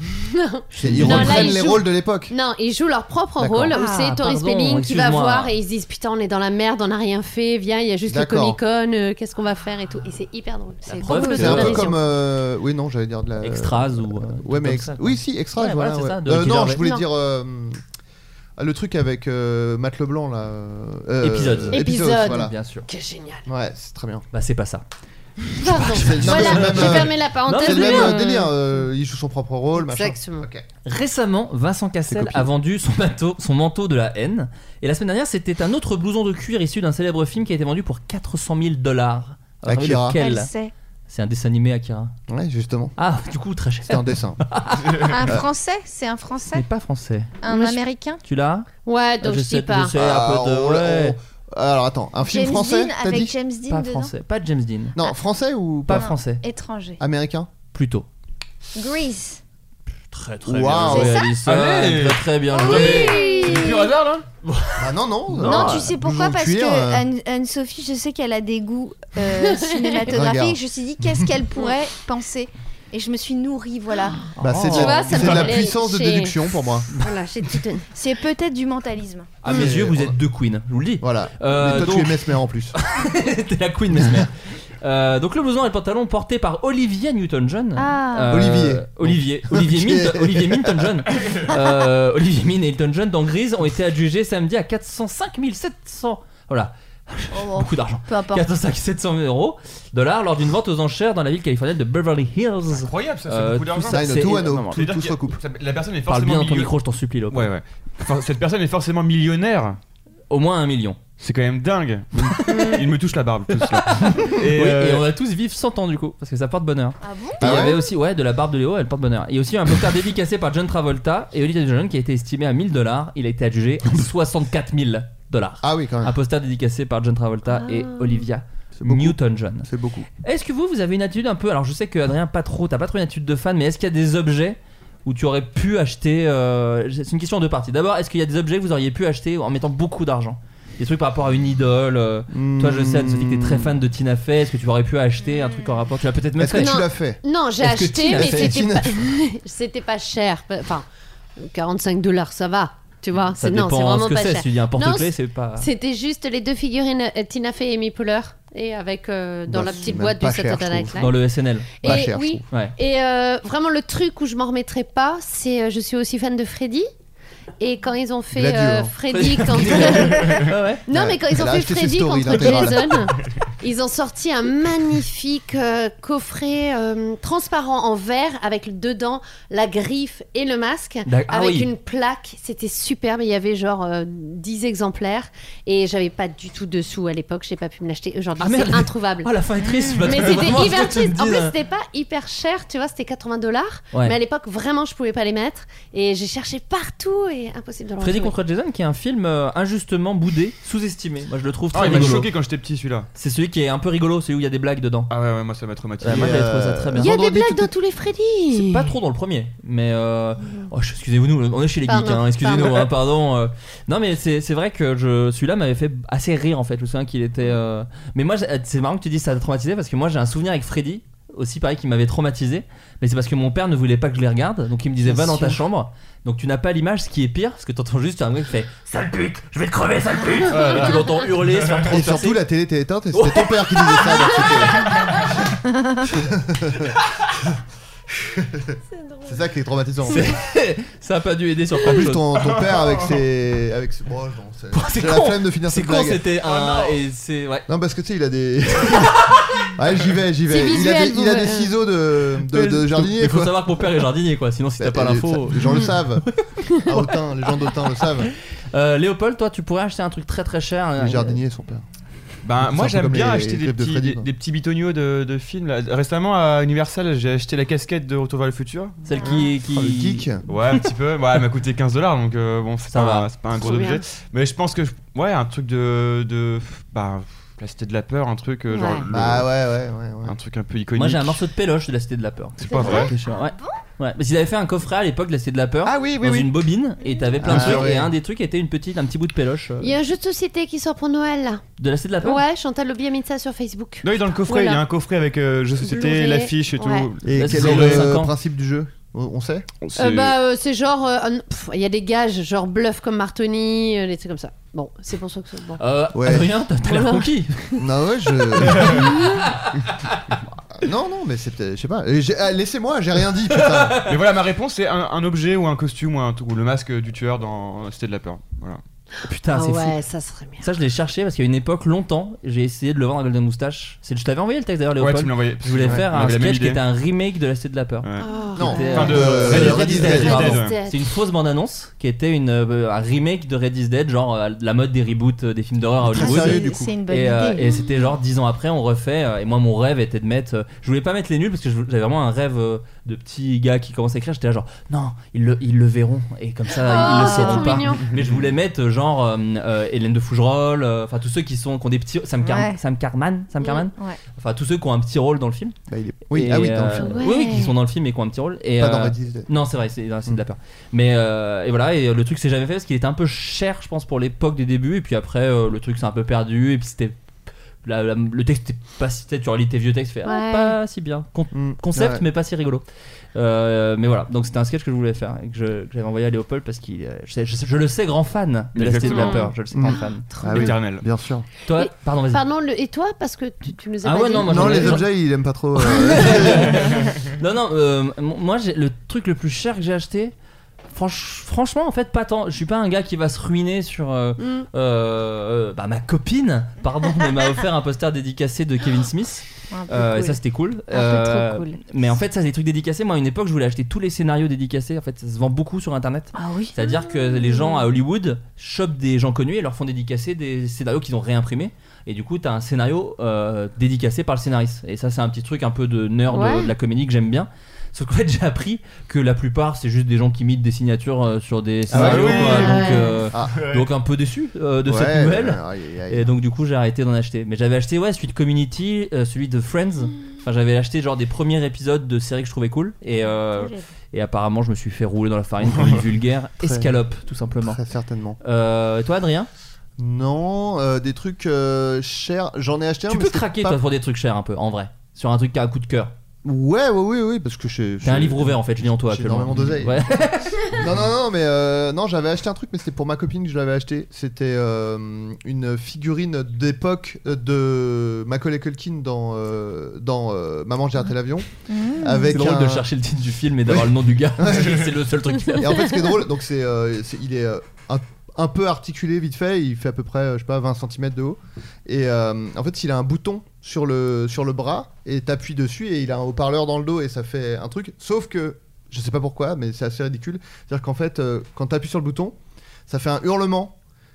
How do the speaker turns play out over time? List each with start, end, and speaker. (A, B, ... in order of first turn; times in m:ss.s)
0:00.2-0:12.0 A
0:00.7-0:01.4 B
0:00.7-0:02.3 C
0:01.1-0:01.8 D
0:03.4-0:03.7 C
0:03.7-0:05.5 B
0:03.7-0:04.0 D
0:08.1-0:08.6 C
0:10.8-0:11.9 B
0:11.0-0:11.9 D
0:11.3-0:17.8 C
0:13.4-0:16.8 B
0:16.8-0:17.1 A
0:18.6-0:22.5 C
0:21.2-0:22.9 B
0:21.7-0:23.4 A
0:23.4-0:24.3 C
0:24.3-0:24.8 B
0:25.5-0:28.2 B
0:25.6-0:28.5 A
0:25.9-0:30.6 C
0:29.8-0:30.5 A
0:30.9-0:40.5 B
0:32.1-0:32.5 C
0:39.6-0:40.2 C
0:40.1-0:40.7 D
0:41.1-0:42.1 B
0:42.3-0:42.9 C
0:43.0-0:45.1 B
0:43.9-0:44.4 C
0:45.0-0:46.6 D
0:46.5-0:47.4 B
0:47.4-0:48.2 D
0:47.5-0:47.8 A
0:48.2-0:48.7 B
0:48.9-0:49.9 A
0:49.2-0:51.2 B
0:49.9-0:53.3 C
0:52.2-0:54.1 D
0:53.7-0:54.9 B
0:54.9-0:56.1 C
0:55.9-0:56.4 B
0:55.9-0:57.0 D
0:57.0-0:57.5 C
0:57.7-0:58.1 B
0:58.7-0:59.4 D
1:00.1-1:03.2 B
1:00.4-1:01.2 C
1:00.9-1:01.3 D
1:01.4-1:04.2 E
1:02.7-1:03.9 A
1:02.7-1:03.8 D
1:04.8-1:07.0 C
1:05.3-1:05.9 B
1:05.4-1:14.2 D
1:09.3-1:10.2 A
1:10.1-1:11.3 C
1:14.4-1:15.3 B
1:14.4-1:16.9 C
1:14.7-1:16.4 A
1:16.9-1:17.9 A
1:17.9-1:19.3 D
1:19.4-1:44.8 B
1:19.4-1:20.2 C
1:21.0-1:22.8 C
1:24.0-1:24.2 C
1:27.8-1:28.4 D
1:28.3-1:30.9 C
1:37.3-1:38.5 D
1:42.7-1:46.7 E
1:43.9-1:45.4 C
1:46.1-1:47.5 B
1:47.3-1:49.8 E
1:50.3-1:51.0 B
1:51.2-1:55.1 E
1:52.2-1:52.8 B
1:53.6-2:09.7 B
1:57.0-1:57.8 D
1:57.4-1:57.8 C
2:05.6-2:06.2 C
2:07.6-2:08.2 A
2:08.8-2:10.1 C
2:10.2-2:26.8 B
2:22.3-2:23.8 C
2:25.3-2:25.7 D
2:26.4-2:27.2 C
2:26.6-2:30.8 A
2:27.6-2:28.6 B
2:28.1-2:29.0 C
2:31.4-2:41.1 A
2:33.4-2:35.7 B
2:39.5-2:41.1 C
2:41.0-2:42.7 B
2:41.8-2:46.9 A
2:41.8-2:42.4 C
2:47.6-3:09.3 A
2:48.3-2:48.9 C
2:49.1-2:50.8 B
2:50.9-2:53.1 C
3:01.0-3:01.7 B
3:08.4-3:11.5 B
3:09.6-3:10.0 D
3:10.0-3:18.3 A
3:18.0-3:22.3 B
3:21.7-3:23.1 E
3:23.1-3:25.1 B
3:25.1-3:26.4 E
3:26.0-3:27.1 B
3:26.0-3:27.7 C
3:27.0-3:28.9 A
3:28.5-3:52.4 B
3:31.9-3:32.9 A
3:45.1-3:45.6 C
3:50.5-3:51.8 E
3:51.9-3:55.0 C
3:53.1-3:54.5 B
3:56.0-3:57.0 C
3:58.2-4:00.3 C
3:59.0-3:59.3 A
4:00.0-4:02.2 B
4:01.8-4:06.2 C
4:04.7-4:07.7 B
4:06.6-4:06.9 E
4:07.7-4:13.8 C
4:10.5-4:11.8 A
4:12.5-4:17.1 B
4:14.8-4:16.2 C
4:16.8-4:18.3 C
4:18.7-4:21.4 B
4:21.0-4:21.8 C
4:22.4-4:29.0 E
4:22.6-4:24.3 C
4:29.0-4:30.3 B
4:29.1-4:29.4 D
4:29.6-4:30.4 C
4:30.5-4:39.5 E
4:32.9-4:33.3 B
4:33.6-4:34.0 A
4:38.7-4:39.1 A
4:39.1-4:40.4 C
4:40.2-4:41.4 E
4:40.9-4:49.9 B
4:42.6-4:43.1 E
4:42.6-4:43.1 A
4:43.2-4:43.8 D
4:45.9-4:46.5 C
4:46.1-4:46.4 E
4:47.0-4:47.5 D
4:47.4-4:48.1 C
4:49.8-4:51.6 A
4:51.8-4:52.4 B
4:52.2-4:54.8 A
4:54.0-4:58.1 E
4:55.8-4:57.1 A
4:57.2-4:59.7 C
4:57.3-4:58.3 B
4:59.8-5:00.4 E
5:00.0-5:05.8 A
5:05.8-5:07.8 B
5:06.1-5:06.6 C
5:06.9-5:07.2 A
5:07.8-5:09.0 C
5:08.7-5:10.2 B
5:10.7-5:14.0 C
5:13.5-5:14.1 B
5:14.0-5:18.8 E
5:19.2-5:20.0 B
5:19.5-5:20.6 A
5:20.6-5:55.8 B
5:25.0-5:26.8 E
5:28.0-5:30.8 E
5:28.2-5:31.0 A
5:28.6-5:30.6 C
5:36.0-5:36.9 C
5:36.1-5:37.8 D
5:46.7-5:48.1 A
5:47.0-5:47.8 D
5:52.4-5:52.8 D
5:53.9-5:54.2 D
5:55.9-5:57.2 C
5:56.3-6:07.2 B
5:57.0-5:57.7 A
5:58.8-5:59.5 C
6:07.8-6:12.8 B
6:10.2-6:10.8 A
6:11.5-6:12.2 C
6:13.3-6:20.3 B
6:18.7-6:19.5 E
6:19.0-6:20.7 A
6:19.7-6:21.4 C
6:20.5-6:21.0 E
6:21.6-6:22.4 B
6:21.7-6:25.0 A
6:24.0-6:25.1 B
6:24.4-6:26.9 C
6:25.8-6:30.3 B
6:30.9-7:17.8 B
6:34.4-6:34.7 A
6:39.7-6:41.8 D
6:46.3-6:47.6 D
6:56.3-6:56.7 A
7:01.9-7:03.6 C
7:01.9-7:02.9 E
7:02.4-7:03.2 A
7:03.6-7:03.9 E
7:04.9-7:06.3 C
7:15.6-7:16.0 C
7:16.6-7:16.9 C
7:17.6-7:18.4 C
7:18.4-7:19.5 B
7:20.0-7:23.8 C
7:23.1-7:26.1 B
7:26.4-7:30.0 C
7:28.0-7:30.7 B
7:30.6-7:42.9 C
7:41.7-7:42.3 D
7:42.2-7:46.0 B
7:43.6-7:44.9 C
7:45.6-8:02.4 C
8:02.9-8:03.7 C